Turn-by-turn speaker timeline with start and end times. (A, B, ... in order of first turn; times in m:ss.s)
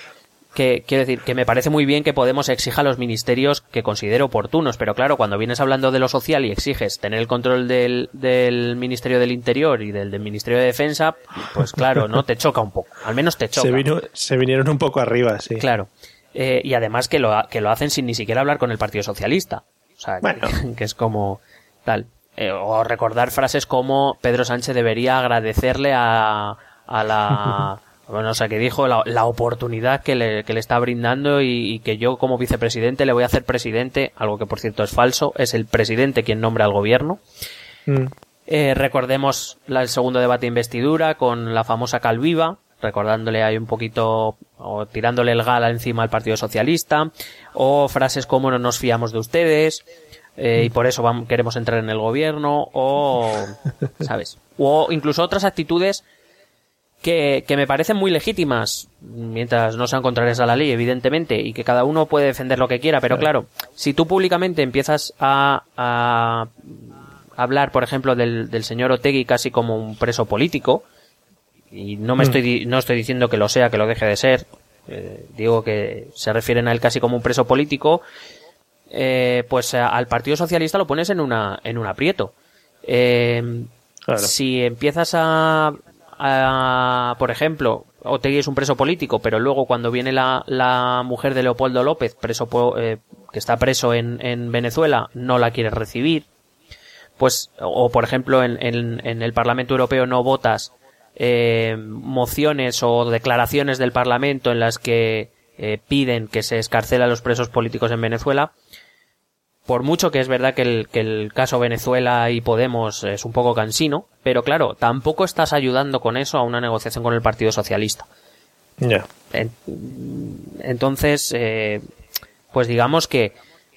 0:00.5-0:13.9 A
0:13.6-0:15.6 B
0:15.6-0:37.2 A
0:20.2-0:20.5 B
0:27.3-0:27.6 B
0:37.9-0:38.1 B
0:38.5-0:49.8 A
0:50.4-0:56.0 A
0:57.0-1:10.8 A
1:11.7-1:18.0 A
1:18.9-1:22.3 A
1:22.8-1:36.2 A
1:37.2-1:48.5 A
1:49.7-1:58.1 A
1:58.8-1:59.1 B
1:59.3-2:01.8 A
2:02.5-2:03.3 A